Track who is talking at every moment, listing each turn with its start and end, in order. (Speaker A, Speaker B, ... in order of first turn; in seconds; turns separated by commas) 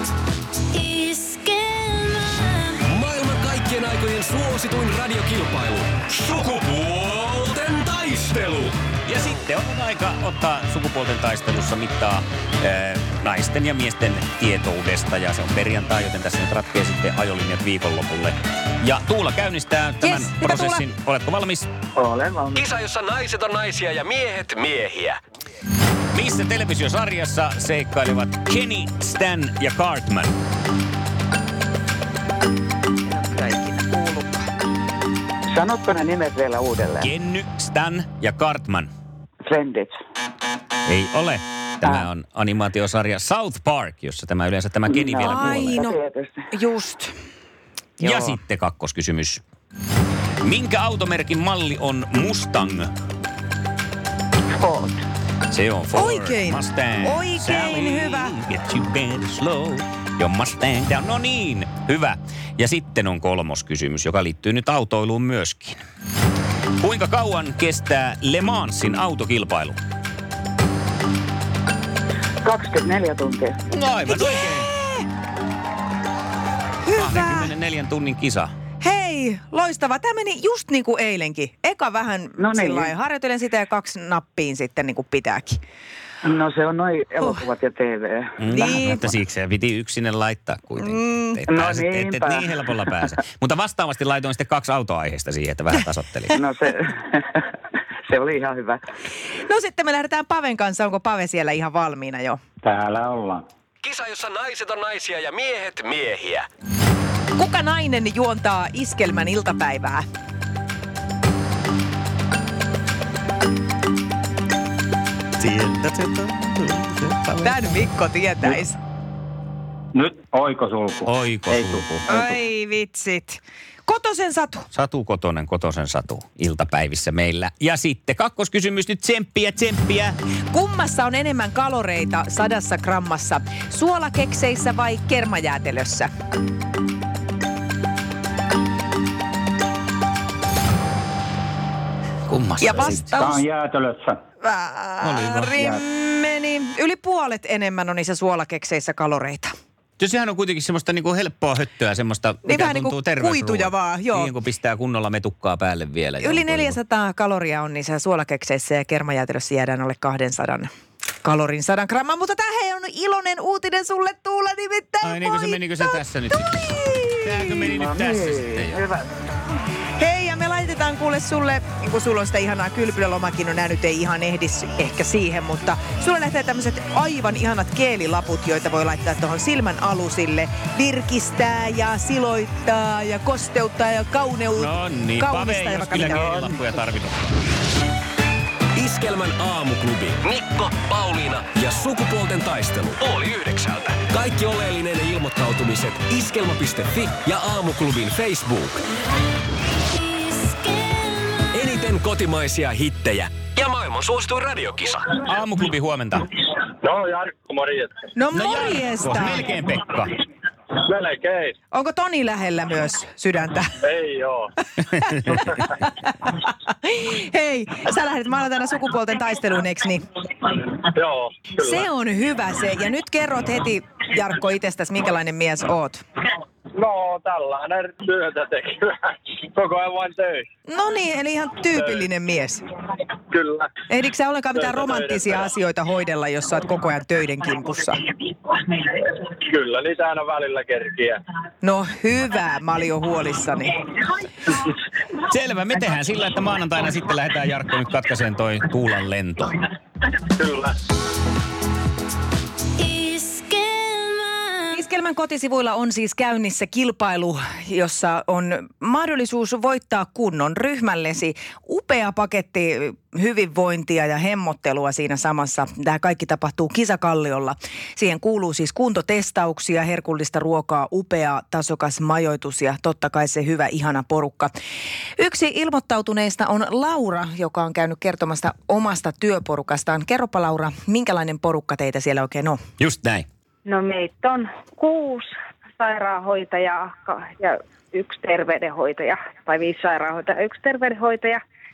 Speaker A: 0.8-9.3, Speaker B: 9.1-21.7, Speaker C: 20.0-20.9, Speaker D: 22.0-22.7, Speaker A: 22.6-25.2, Speaker B: 26.1-30.3, Speaker C: 33.1-34.5, Speaker D: 35.5-37.1, Speaker B: 37.0-38.9, Speaker D: 39.4-40.0, Speaker B: 40.9-45.9, Speaker D: 44.9-46.3, Speaker C: 45.2-46.0, Speaker C: 46.5-47.1, Speaker B: 48.0-49.4, Speaker D: 48.1-48.3, Speaker B: 50.4-52.9, Speaker D: 54.5-55.0, Speaker B: 55.5-65.8, Speaker C: 55.9-58.3, Speaker B: 66.8-69.8, Speaker D: 72.4-73.6, Speaker B: 73.7-74.7, Speaker C: 74.1-75.1, Speaker C: 76.8-77.5, Speaker B: 77.0-78.5, Speaker C: 78.8-85.6, Speaker D: 82.4-82.9, Speaker D: 86.2-88.6, Speaker B: 88.4-96.4, Speaker C: 88.5-89.1, Speaker C: 90.9-91.4, Speaker D: 91.5-92.6, Speaker D: 96.4-97.4, Speaker D: 98.1-98.8, Speaker C: 99.5-102.4, Speaker E: 102.6-103.5, Speaker A: 103.8-106.5, Speaker C: 107.4-110.0, Speaker B: 115.4-117.7, Speaker C: 117.4-118.8, Speaker E: 119.9-122.3, Speaker B: 121.0-122.0, Speaker C: 122.1-124.7, Speaker B: 124.7-130.2, Speaker C: 130.5-136.1, Speaker B: 142.3-143.2, Speaker C: 142.6-143.2, Speaker E: 142.7-144.2, Speaker C: 144.4-149.5, Speaker B: 145.0-145.6, Speaker B: 150.0-156.8, Speaker C: 152.4-154.3, Speaker C: 156.2-160.7, Speaker C: 161.2-167.7, Speaker B: 165.0-168.9, Speaker D: 167.7-169.1, Speaker C: 170.0-186.6, Speaker B: 184.6-187.2, Speaker A: 188.8-198.8, Speaker A: 201.4-205.1, Speaker B: 205.2-206.3, Speaker F: 206.8-207.9, Speaker C: 208.1-209.5, Speaker B: 208.3-210.2, Speaker F: 210.9-211.5, Speaker C: 211.7-213.7, Speaker F: 213.8-214.5, Speaker C: 215.2-215.7, Speaker C: 216.2-220.0, Speaker F: 220.8-221.8, Speaker C: 221.6-226.0, Speaker F: 226.8-228.9, Speaker F: 229.5-230.4, Speaker C: 230.7-232.6, Speaker F: 231.8-232.1, Speaker F: 233.3-233.7, Speaker C: 233.9-238.1, Speaker F: 234.6-235.5, Speaker F: 239.3-241.2, Speaker C: 241.6-243.8, Speaker B: 245.1-249.6, Speaker F: 250.4-250.8, Speaker C: 254.7-274.5, Speaker C: 275.2-282.6, Speaker B: 282.8-283.2, Speaker G: 283.6-285.3, Speaker G: 285.8-291.4